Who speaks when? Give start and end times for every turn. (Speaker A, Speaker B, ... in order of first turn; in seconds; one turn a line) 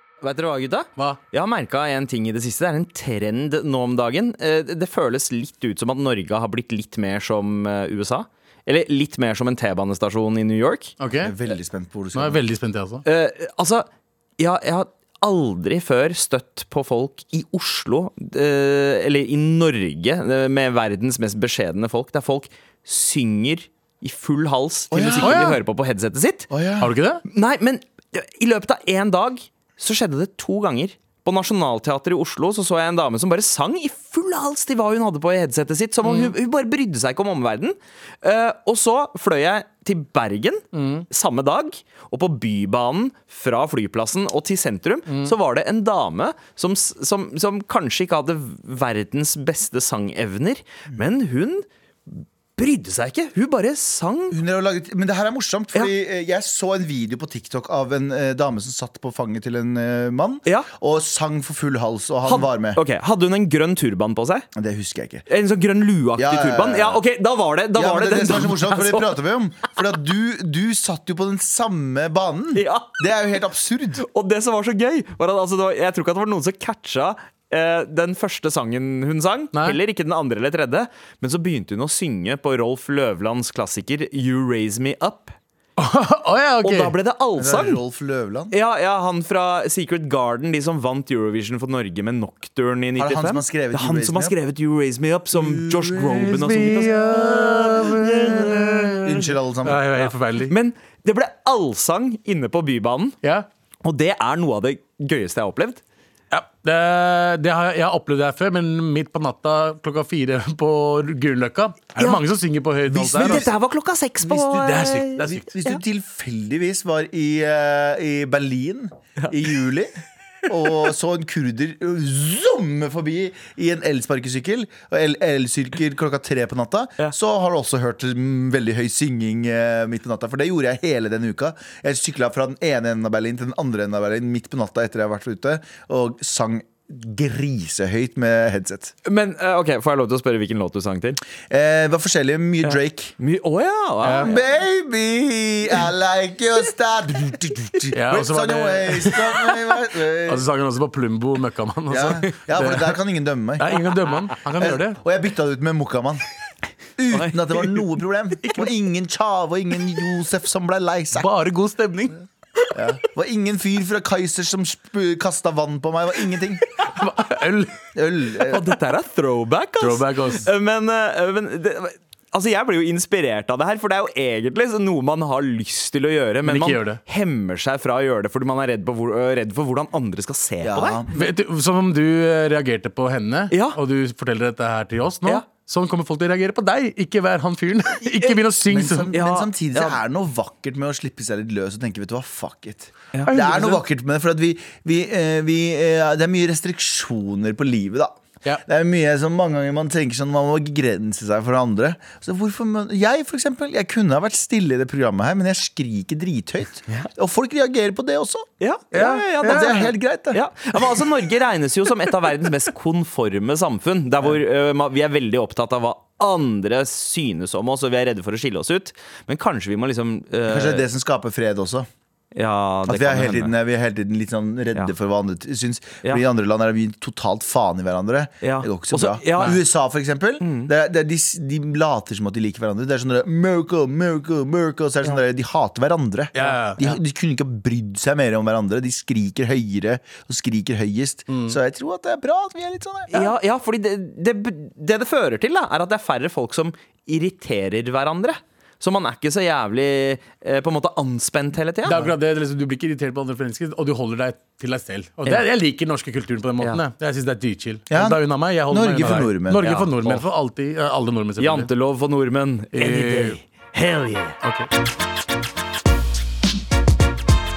Speaker A: 0.2-10.9
Speaker B: 11.0-11.3
Speaker C: 11.2-12.4
Speaker B: 12.1-13.0
Speaker A: 13.0-26.5
Speaker C: 24.9-25.4
Speaker B: 25.2-25.6
Speaker C: 26.5-26.9
Speaker B: 26.8-27.2
Speaker A: 27.3-54.4
Speaker B: 36.0-36.3
Speaker B: 40.7-41.1
Speaker B: 45.1-45.3
Speaker C: 54.3-62.8
Speaker A: 62.2-64.5
Speaker C: 64.5-65.2
Speaker A: 65.3-69.1
Speaker C: 66.2-67.0
Speaker C: 67.7-74.0
Speaker A: 72.5-73.0
Speaker A: 74.0-85.3
Speaker B: 85.8-86.9
Speaker A: 86.6-87.8
Speaker C: 87.4-88.5
Speaker A: 88.5-99.0
Speaker C: 93.0-94.3
Speaker C: 95.3-96.3
Speaker B: 96.1-100.5
Speaker C: 99.0-99.8
Speaker A: 100.4-103.2
Speaker A: 103.8-105.8
Speaker B: 106.3-113.5
Speaker A: 112.0-112.2
Speaker C: 112.9-113.5
Speaker A: 112.9-115.8
Speaker B: 114.2-115.5
Speaker C: 115.2-120.0
Speaker C: 120.5-138.9
Speaker A: 139.1-141.2
Speaker C: 141.5-143.2
Speaker A: 142.6-144.4
Speaker B: 144.0-144.3
Speaker C: 144.2-150.5
Speaker B: 147.9-152.9
Speaker C: 151.9-153.8
Speaker B: 153.6-155.0
Speaker C: 154.6-156.2
Speaker C: 157.0-161.3
Speaker A: 157.1-157.4
Speaker B: 158.4-158.7
Speaker B: 161.2-162.2
Speaker C: 162.7-166.7
Speaker B: 166.8-167.8
Speaker C: 167.9-168.8
Speaker A: 168.4-181.0
Speaker B: 169.8-170.5
Speaker B: 176.4-177.0
Speaker C: 180.6-181.3
Speaker B: 181.1-189.1
Speaker A: 183.5-183.8
Speaker C: 188.7-208.5
Speaker A: 189.1-190.0
Speaker B: 193.2-193.8
Speaker A: 208.6-220.9
Speaker B: 208.9-209.9
Speaker C: 209.4-210.4
Speaker C: 220.5-221.9
Speaker A: 222.3-223.6
Speaker C: 222.9-243.3
Speaker A: 228.4-229.6
Speaker A: 230.4-230.7
Speaker B: 236.3-236.8
Speaker B: 241.3-241.6
Speaker A: 243.1-252.0
Speaker B: 251.8-261.7
Speaker C: 257.9-259.7
Speaker A: 259.5-260.2
Speaker A: 261.4-264.4
Speaker B: 262.7-263.4
Speaker B: 264.4-264.7